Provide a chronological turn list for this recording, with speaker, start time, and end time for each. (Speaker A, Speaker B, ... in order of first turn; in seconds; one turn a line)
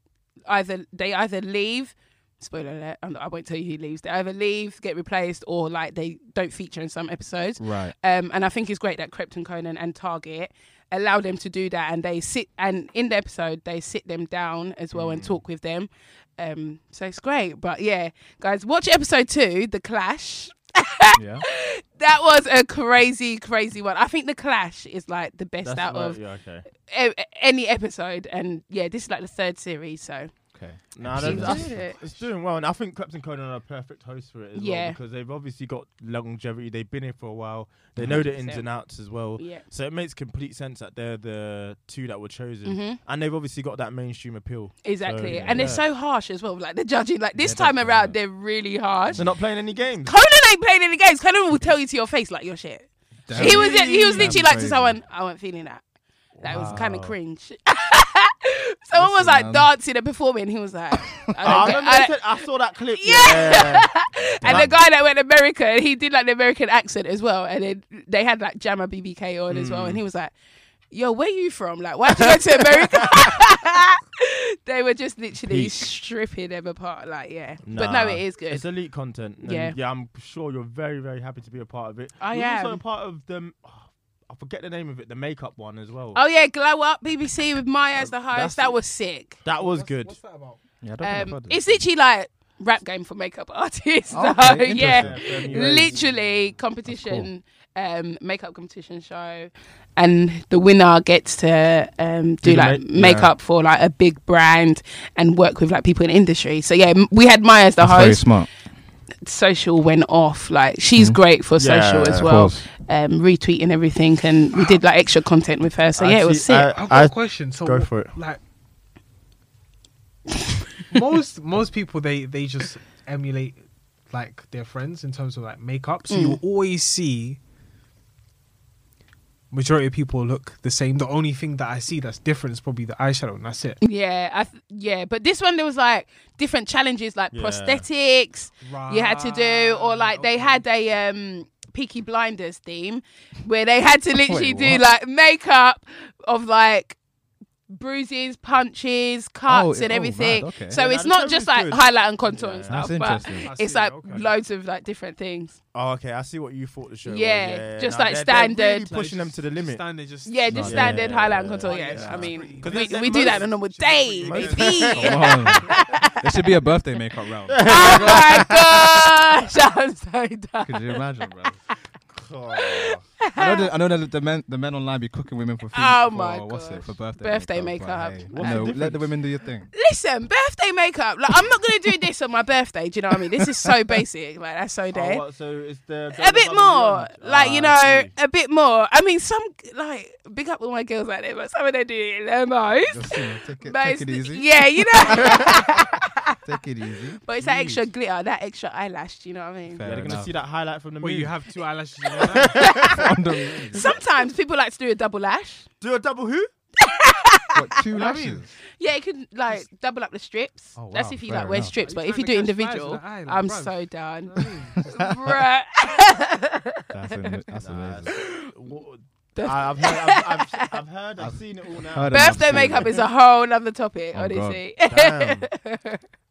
Speaker A: 0.5-30.3
Speaker B: 7.6-7.9
Speaker C: 14.9-15.4
Speaker B: 21.2-21.4
Speaker C: 25.6-26.6
Speaker B: 30.6-31.9
Speaker C: 31.0-45.9
Speaker A: 31.1-32.0
Speaker A: 34.5-35.0
Speaker B: 38.0-38.3
Speaker A: 38.1-38.7
Speaker A: 39.4-39.6
Speaker A: 42.7-43.0
Speaker A: 44.8-49.2
Speaker B: 45.2-45.8
Speaker B: 47.4-48.2
Speaker B: 49.1-49.4
Speaker C: 49.1-50.2
Speaker A: 50.0-55.8
Speaker B: 53.3-55.0
Speaker C: 53.3-54.4
Speaker C: 56.4-57.1
Speaker A: 56.4-62.2
Speaker B: 56.5-57.0
Speaker B: 58.9-59.7
Speaker B: 61.4-61.8
Speaker C: 61.4-64.8
Speaker A: 63.0-70.3
Speaker B: 64.4-64.8
Speaker C: 69.5-70.0
Speaker A: 70.9-78.6
Speaker C: 72.4-73.2
Speaker C: 75.4-75.8
Speaker C: 77.7-86.2
Speaker A: 79.4-79.8
Speaker A: 82.2-82.8
Speaker A: 86.1-89.4
Speaker C: 88.0-88.8
Speaker C: 89.4-90.2
Speaker D: 89.5-90.6
Speaker B: 90.8-91.8
Speaker A: 91.0-108.3
Speaker B: 94.1-96.0
Speaker C: 94.7-96.3
Speaker B: 96.9-97.3
Speaker C: 102.4-103.3
Speaker B: 107.8-108.5
Speaker A: 109.2-116.7
Speaker C: 111.6-112.3
Speaker B: 112.2-112.7
Speaker C: 116.0-118.1
Speaker D: 116.7-118.4
Speaker D: 120.9-127.4
Speaker A: 126.1-126.4
Speaker D: 129.5-133.8
Speaker A: 133.8-147.0
Speaker C: 137.3-137.8
Speaker D: 138.6-140.6
Speaker B: 144.2-144.8
Speaker A: 147.7-155.6
Speaker B: 149.5-150.8
Speaker C: 150.7-152.9
Speaker B: 152.7-153.5
Speaker D: 153.4-154.3
Speaker C: 155.7-159.8
Speaker A: 157.1-158.9
Speaker D: 158.9-165.0
Speaker A: 160.3-166.2
Speaker B: 160.5-161.0
Speaker C: 160.6-163.5
Speaker B: 162.0-162.3
Speaker C: 164.2-165.2
Speaker B: 164.8-165.7
Speaker B: 166.2-168.9
Speaker C: 167.5-168.6
Speaker A: 167.7-171.0
Speaker B: 170.6-171.6
Speaker C: 172.1-173.0
Speaker A: 172.6-173.7
Speaker B: 173.4-179.7
Speaker A: 175.7-178.7
Speaker C: 178.3-179.1
Speaker A: 179.7-185.2
Speaker C: 184.9-188.1
Speaker A: 186.1-196.4
Speaker B: 192.8-195.8
Speaker B: 196.4-197.2
Speaker A: 197.2-199.8
Speaker C: 197.4-197.9
Speaker B: 199.7-200.3
Speaker C: 199.8-201.3
Speaker D: 201.0-202.8
Speaker C: 202.2-203.1
Speaker A: 202.6-203.0
Speaker B: 202.8-203.9
Speaker A: 203.7-205.7
Speaker C: 205.8-206.5
Speaker A: 206.8-207.6
Speaker B: 207.6-208.5
Speaker D: 207.9-208.4
Speaker A: 208.8-217.4
Speaker B: 210.8-211.7
Speaker D: 211.8-215.1
Speaker B: 216.9-218.1
Speaker C: 217.6-222.9
Speaker A: 218.1-218.5
Speaker A: 219.3-220.7
Speaker B: 221.2-223.0
Speaker A: 222.1-226.0
Speaker B: 224.1-224.6
Speaker C: 224.9-225.5